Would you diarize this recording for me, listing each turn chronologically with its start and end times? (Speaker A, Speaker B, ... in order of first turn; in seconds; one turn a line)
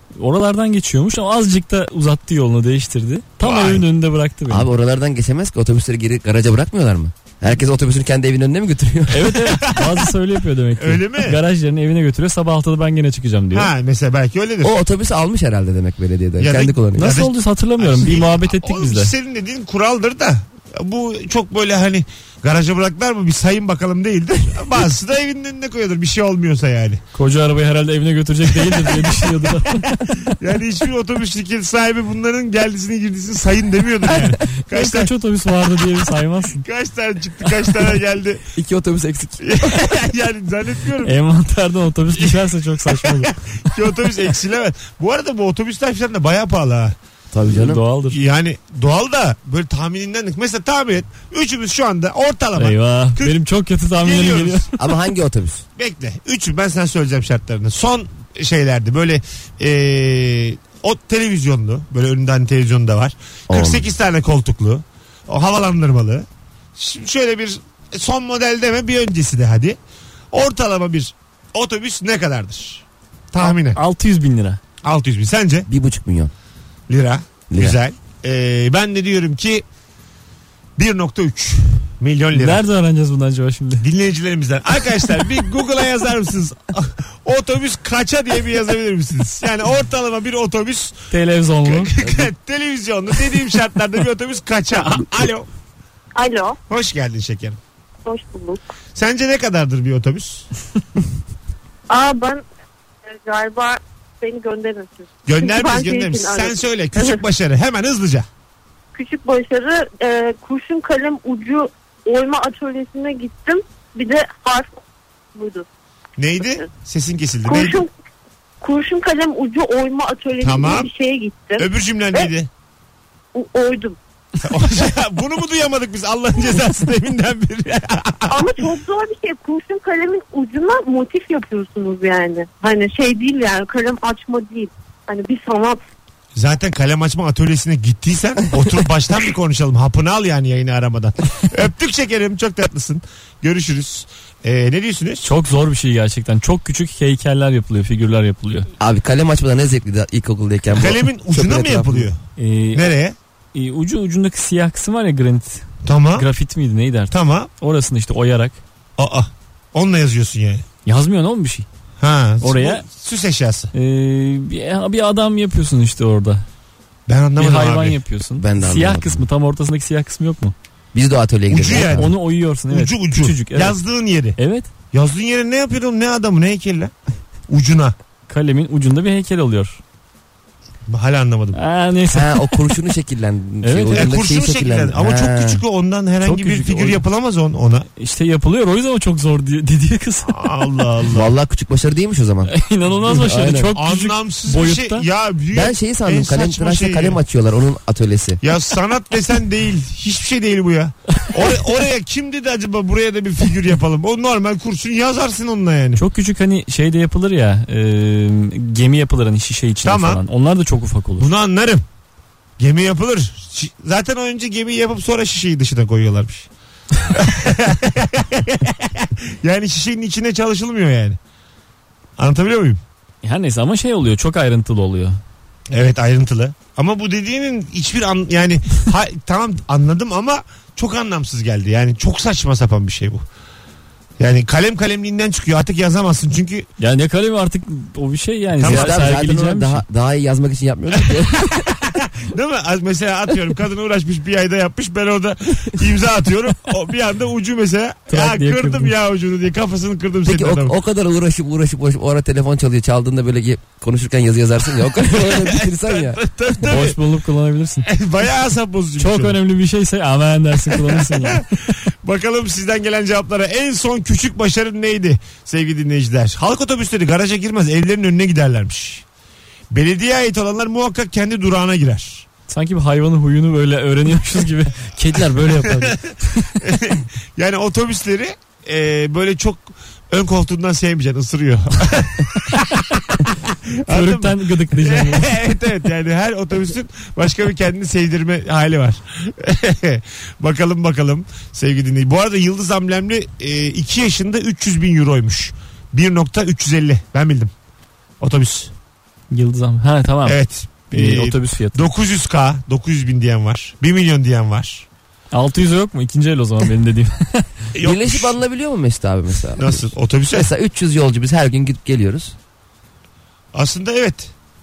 Speaker A: 0.2-4.7
Speaker B: 3.4-3.9
Speaker C: 4.5-9.4
Speaker A: 9.1-13.7
Speaker B: 9.6-9.9
Speaker B: 10.8-11.4
Speaker B: 13.5-14.7
Speaker C: 14.6-17.1
Speaker B: 16.4-27.0
Speaker A: 17.0-19.1
Speaker A: 27.1-30.3
Speaker B: 28.6-35.1
Speaker A: 34.3-36.6
Speaker B: 36.6-38.4
Speaker C: 38.5-39.9
Speaker B: 39.4-41.2
Speaker A: 41.0-43.4
Speaker B: 42.2-47.0
Speaker C: 47.3-47.8
Speaker A: 47.5-48.2
Speaker B: 48.1-53.3
Speaker A: 52.6-54.8
Speaker B: 54.0-54.7
Speaker C: 54.8-55.6
Speaker B: 55.8-69.8
Speaker C: 63.5-63.9
Speaker B: 70.3-73.8
Speaker A: 73.4-74.6
Speaker B: 74.8-75.7
Speaker C: 75.7-76.3
Speaker B: 76.9-79.6
Speaker C: 77.5-77.8
Speaker B: 80.8-82.6
Speaker A: 82.3-83.9
Speaker B: 83.8-91.0
Speaker A: 91.1-92.2
Speaker B: 91.6-95.5
Speaker D: 96.2-96.6
Speaker B: 96.7-97.6
Speaker D: 98.1-98.7
Speaker B: 99.0-100.5
Speaker D: 101.9-102.4
Speaker D: 103.1-107.2
Speaker B: 105.3-108.3
Speaker D: 108.9-114.8
Speaker D: 115.3-115.7
Speaker B: 116.2-117.8
Speaker D: 117.5-117.9
Speaker D: 118.6-122.3
Speaker B: 120.4-120.9
Speaker B: 121.6-122.5
Speaker D: 123.3-124.0
Speaker B: 124.4-128.6
Speaker D: 128.3-135.8
Speaker B: 136.4-145.3
Speaker A: 145.2-148.7
Speaker C: 148.8-152.1
Speaker B: 150.8-152.2
Speaker A: 152.4-152.9
Speaker B: 152.8-153.2
Speaker A: 153.5-158.6
Speaker B: 155.8-156.3
Speaker B: 157.1-157.5
Speaker B: 159.0-160.7
Speaker A: 160.8-161.7
Speaker B: 162.0-163.7
Speaker A: 162.4-162.9
Speaker A: 163.7-166.4
Speaker B: 167.1-168.0
Speaker A: 167.4-170.6
Speaker C: 168.4-169.3
Speaker C: 170.9-172.1
Speaker B: 171.5-172.2
Speaker A: 171.7-173.8
Speaker B: 172.7-174.4
Speaker A: 174.4-174.7
Speaker B: 174.9-176.9
Speaker B: 177.5-178.0
Speaker A: 178.3-179.8
Speaker B: 180.9-181.6
Speaker A: 181.5-182.6
Speaker C: 182.1-185.6
Speaker A: 183.6-184.2
Speaker B: 183.9-187.9
Speaker A: 186.2-187.0
Speaker A: 188.0-190.5
Speaker B: 190.3-191.3
Speaker C: 191.1-193.7
Speaker A: 192.5-195.1
Speaker B: 193.7-197.2
Speaker C: 195.5-198.4
Speaker B: 198.4-206.0
Speaker A: 206.0-211.3
Speaker B: 209.8-210.2
Speaker B: 211.2-211.8
Speaker B: 212.6-216.5
Speaker B: 217.1-221.2
Speaker B: 222.2-222.8
Speaker A: 223.2-225.2
Speaker B: 225.7-233.2
Speaker B: 234.2-236.7
Speaker A: 236.8-239.8
Speaker B: 238.6-239.2
Speaker C: 238.6-241.7
Speaker B: 241.1-250.8
Speaker A: 248.1-248.9
Speaker C: 250.2-256.2
Speaker B: 255.2-257.0
Speaker A: 256.6-257.9
Speaker B: 257.9-259.4
Speaker A: 259.0-261.5
Speaker B: 260.9-261.4
Speaker B: 262.0-269.0
Speaker B: 269.7-272.3
Speaker A: 272.5-276.6
Speaker B: 275.6-276.0
Speaker B: 276.6-297.5
Speaker A: 283.9-285.4
Speaker B: 298.2-298.7
Speaker A: 299.3-300.4
Speaker B: 300.3-304.9
Speaker A: 300.9-301.9
Speaker A: 305.3-307.5
Speaker B: 307.7-308.3
Speaker C: 307.8-312.4
Speaker B: 309.6-310.5
Speaker B: 313.5-314.3